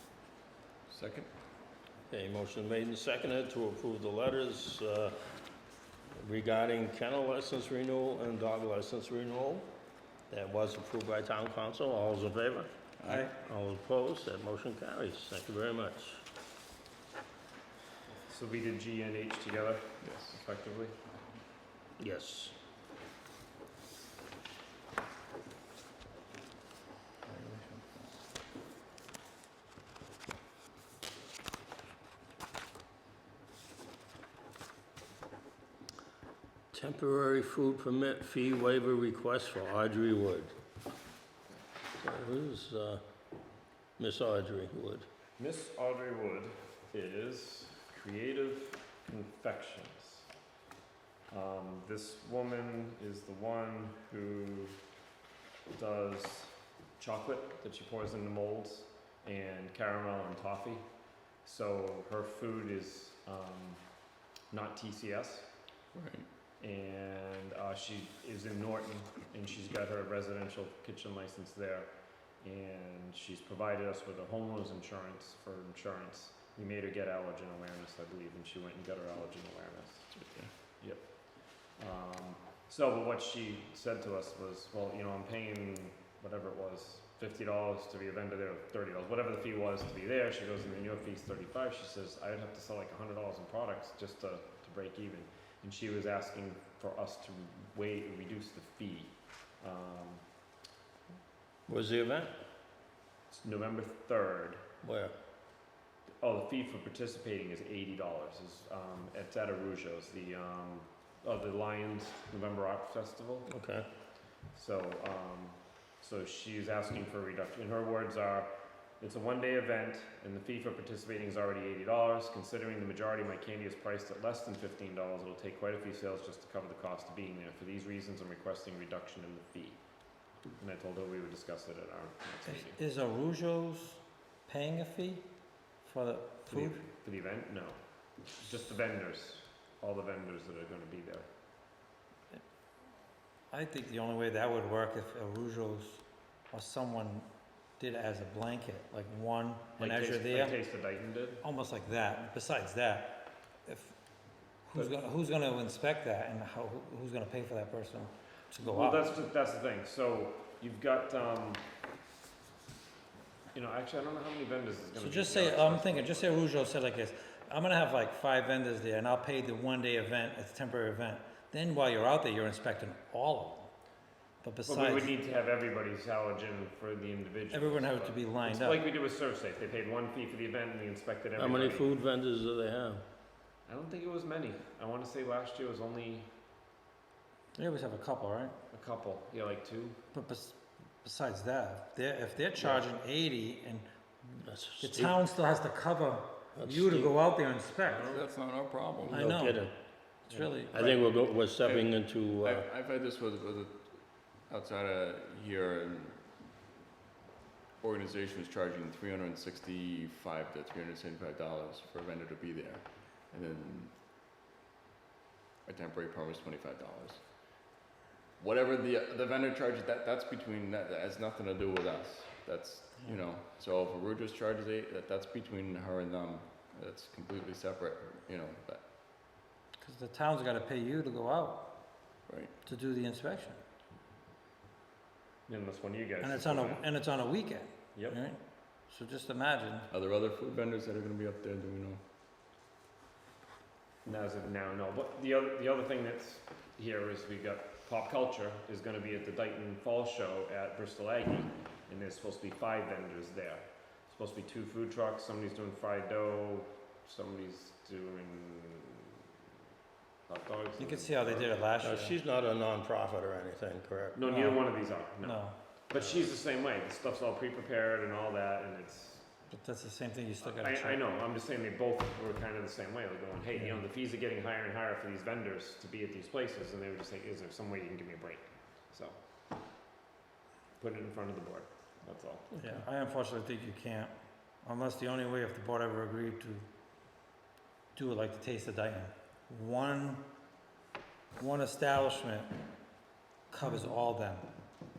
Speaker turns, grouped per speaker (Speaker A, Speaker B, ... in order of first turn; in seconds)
Speaker A: 0.9-1.3, 13.0-13.3, 20.0-20.3, 27.3-27.8, 65.9-66.3, 80.2-80.5, 198.1-199.2, 201.6-206.2, 207.8-213.9, 215.7-217.2, 218.4-228.8, 232.3-232.5, 239.9-242.0
Speaker B: 2.1-5.1, 6.2-9.7, 10.3-12.7, 13.3-16.2, 22.0-22.6, 36.7-40.5, 42.0-43.0, 44.0-45.1, 101.7-102.3, 104.8-105.1, 113.5-113.9, 181.3-183.0, 194.4-195.2, 196.6-197.1, 199.1-199.7, 200.7-202.6, 261.8-264.2
Speaker C: 13.1-13.3, 132.4-135.2, 135.8-136.8, 143.5-150.6, 151.4-154.0, 154.6-159.1, 165.0-173.7, 174.4-175.1, 177.5-178.8, 187.6-188.6, 190.1-198.1, 199.1-199.6, 200.3-201.0, 229.8-233.6, 236.2-239.9, 260.8-262.1, 264.3-264.6, 265.2-265.6, 269.5-271.0, 282.6-286.7, 287.9-290.2, 291.4-292.5, 293.5-294.5
Speaker D: 18.3-20.9, 45.4-50.3, 51.3-54.8, 55.7-60.8, 61.4-63.8, 64.5-65.5, 66.6-71.9, 72.4-80.2, 80.8-100.2, 103.3-104.6, 106.2-113.5, 114.5-129.8, 130.6-132.8, 136.5-141.2, 149.8-151.4, 158.6-161.6, 163.5-166.4, 174.7-181.9, 183.7-186.3, 188.7-190.0, 197.8-198.2, 235.5-236.8, 244.0-259.2, 260.3-261.6, 264.1-269.3, 270.4-279.2, 280.8-282.5